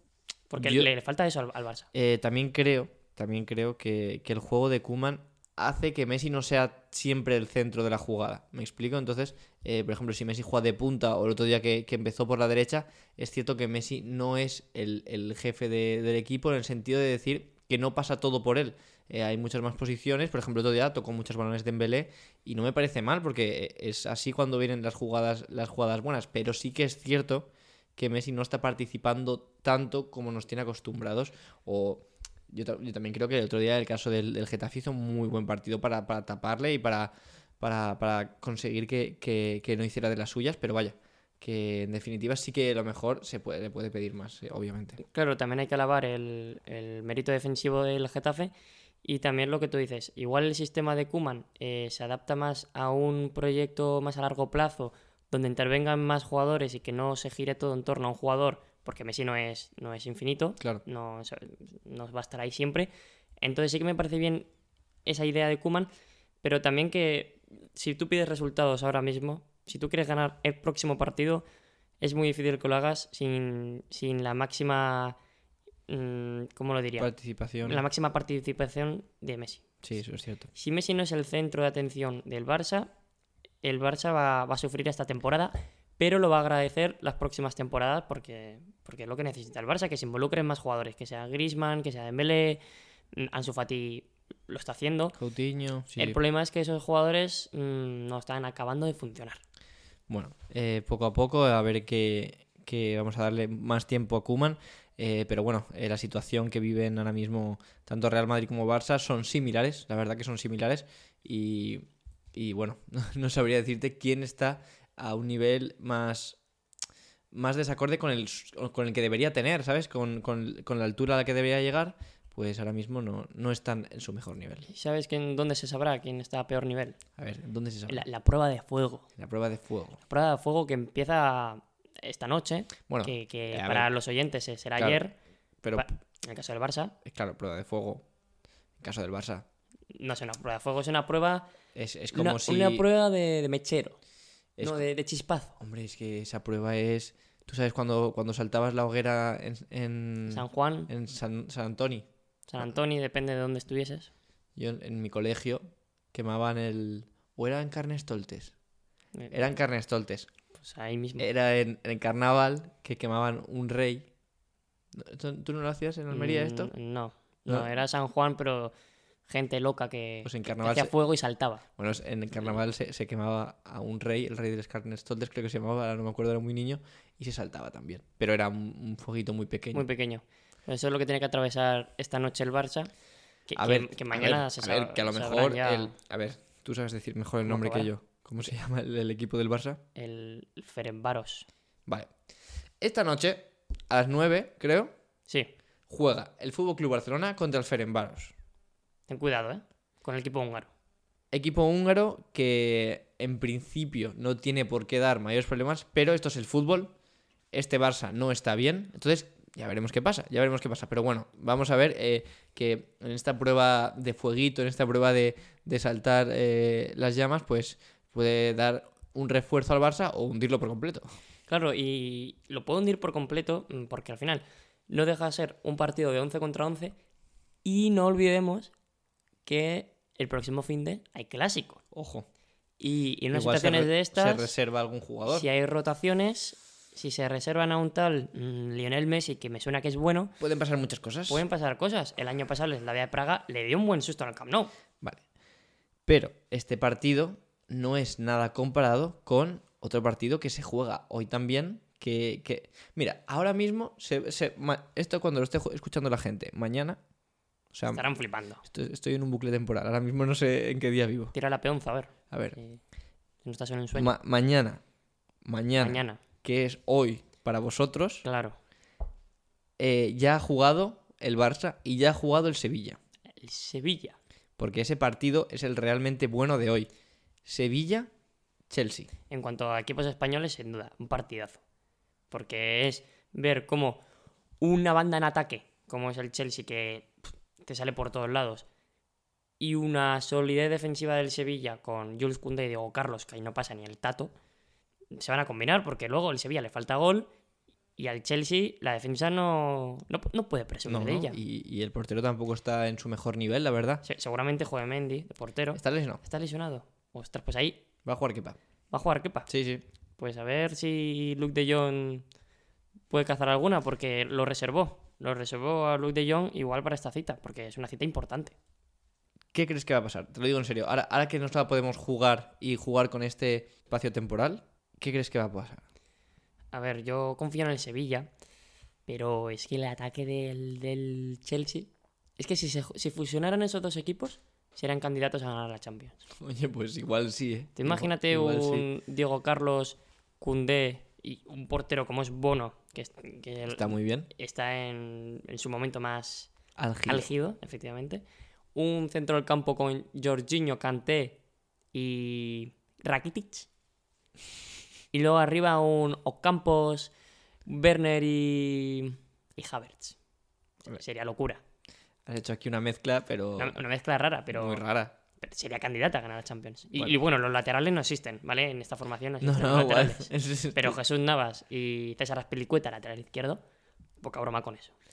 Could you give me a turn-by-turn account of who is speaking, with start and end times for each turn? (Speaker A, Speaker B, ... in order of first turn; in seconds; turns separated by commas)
Speaker A: 0.5-1.9, Speaker B: 0.6-0.9, Speaker B: 1.9-45.0, Speaker A: 45.0-48.5, Speaker A: 49.0-62.9, Speaker A: 63.4-64.5, Speaker A: 65.0-65.9, Speaker A: 66.4-71.4, Speaker A: 72.0-75.2, Speaker A: 75.9-77.1, Speaker B: 77.0-77.8, Speaker A: 77.6-79.7, Speaker B: 79.8-80.5, Speaker A: 80.5-82.9, Speaker A: 83.6-92.6, Speaker A: 93.1-95.2, Speaker B: 95.2-96.2, Speaker A: 96.0-99.4, Speaker B: 100.1-116.4, Speaker B: 117.3-124.7, Speaker A: 124.7-127.0, Speaker B: 127.2-128.0, Speaker A: 127.9-129.1, Speaker B: 129.2-130.0, Speaker A: 130.1-135.1, Speaker B: 132.9-133.9, Speaker A: 135.7-136.9, Speaker B: 137.0-138.0, Speaker B: 138.8-139.4, Speaker A: 139.9-141.5, Speaker B: 141.7-142.8, Speaker A: 142.1-144.0, Speaker B: 144.6-144.8, Speaker A: 144.6-145.6, Speaker B: 145.6-152.1, Speaker A: 150.3-150.9, Speaker A: 152.5-154.1, Speaker B: 154.6-155.6, Speaker B: 156.1-158.5, Speaker A: 159.2-159.5, Speaker B: 159.3-160.3, Speaker A: 160.6-161.2, Speaker B: 161.2-164.1, Speaker B: 164.9-166.7, Speaker A: 166.1-168.7, Speaker A: 169.3-171.6, Speaker B: 170.2-170.9, Speaker B: 171.8-179.8, Speaker A: 179.7-182.9, Speaker A: 183.5-185.9, Speaker B: 183.6-189.8, Speaker A: 187.4-187.9, Speaker A: 189.9-191.5, Speaker B: 192.8-194.9, Speaker B: 195.9-198.3, Speaker A: 199.1-200.7, Speaker B: 201.3-206.9, Speaker B: 207.5-221.0, Speaker A: 221.5-226.9, Speaker A: 227.6-228.7, Speaker A: 229.4-231.8, Speaker B: 231.9-232.2, Speaker A: 232.8-234.5, Speaker B: 233.3-235.5, Speaker A: 235.3-240.3, Speaker B: 240.4-241.4, Speaker A: 241.3-244.7, Speaker B: 246.1-257.0, Speaker B: 257.7-258.0, Speaker A: 257.9-258.6, Speaker B: 258.6-261.3, Speaker A: 261.3-262.8, Speaker B: 262.3-262.6, Speaker A: 263.4-264.1, Speaker B: 263.9-264.8, Speaker B: 265.4-268.2, Speaker A: 265.8-266.2, Speaker A: 268.2-268.6, Speaker B: 269.8-273.0, Speaker A: 273.4-274.2, Speaker B: 274.6-276.9, Speaker B: 277.4-278.1, Speaker B: 278.7-279.1, Speaker A: 279.3-281.6, Speaker A: 282.3-284.0, Speaker A: 284.6-288.6, Speaker A: 289.6-294.3, Speaker A: 295.1-297.3, Speaker A: 298.0-301.4, Speaker B: 300.9-304.0, Speaker A: 304.0-307.8, Speaker B: 305.7-306.2, Speaker B: 308.1-308.6, Speaker A: 308.9-309.5, Speaker B: 309.5-309.8, Speaker A: 310.2-312.2, Speaker A: 313.1-318.5, Speaker B: 319.5-325.8, Speaker A: 326.7-328.3, Speaker A: 329.1-336.2, Speaker B: 336.4-338.9, Speaker A: 337.8-346.5, Speaker B: 343.7-344.3, Speaker B: 346.8-347.3, Speaker A: 347.1-348.2, Speaker A: 348.7-351.4, Speaker A: 351.9-353.7, Speaker A: 355.1-357.1, Speaker A: 357.6-360.2, Speaker A: 360.8-361.6, Speaker B: 362.2-363.8, Speaker A: 363.6-364.8, Speaker B: 364.5-365.1, Speaker A: 365.4-373.6, Speaker B: 369.4-371.0, Speaker A: 374.2-374.9